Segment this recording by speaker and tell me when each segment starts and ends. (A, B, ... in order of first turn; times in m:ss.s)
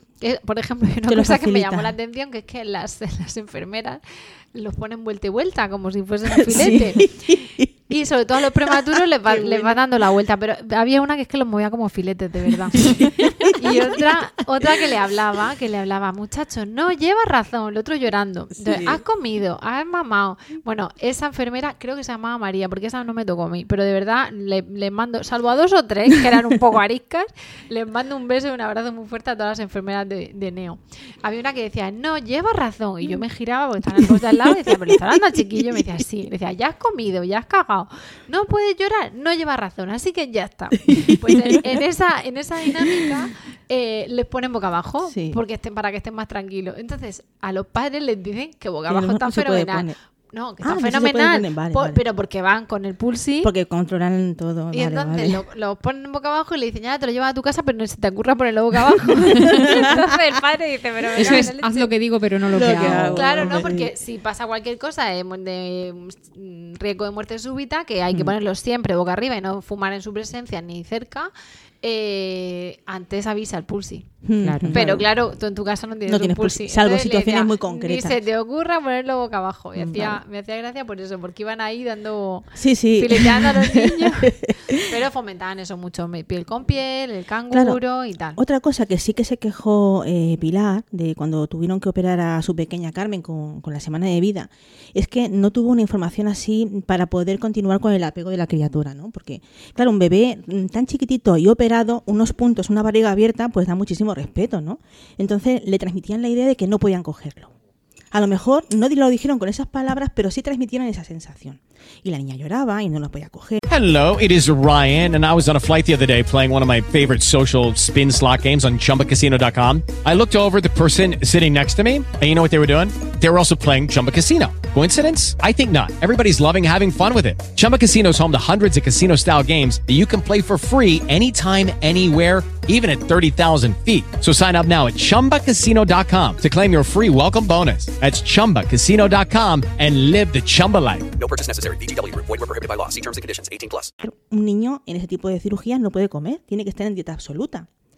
0:00.2-0:07.4 A
0:01.1-0:01.9 B
0:06.3-0:07.8 B
0:07.9-0:53.5 A
0:08.7-0:09.8 B
0:12.8-0:14.6 B
0:18.6-0:19.0 B
0:33.9-0:35.2 B
0:40.9-0:41.7 B
0:45.1-0:45.4 B
0:48.9-0:50.0 B
0:50.6-0:52.0 B
0:53.4-0:55.4 B
0:54.7-1:01.9 A
0:59.5-0:59.9 B
1:01.2-1:03.5 C
1:02.5-1:03.9 B
1:02.6-1:11.3 A
1:11.8-1:14.2 A
1:14.2-1:15.1 B
1:14.4-1:14.8 C
1:14.7-1:28.4 A
1:16.1-1:18.2 B
1:19.8-1:20.2 B
1:22.6-1:24.8 B
1:27.5-1:27.8 B
1:28.4-1:47.5 B
1:48.1-1:53.6 B
1:53.7-2:21.1 D
2:21.2-2:23.9 E
2:24.0-2:27.7 B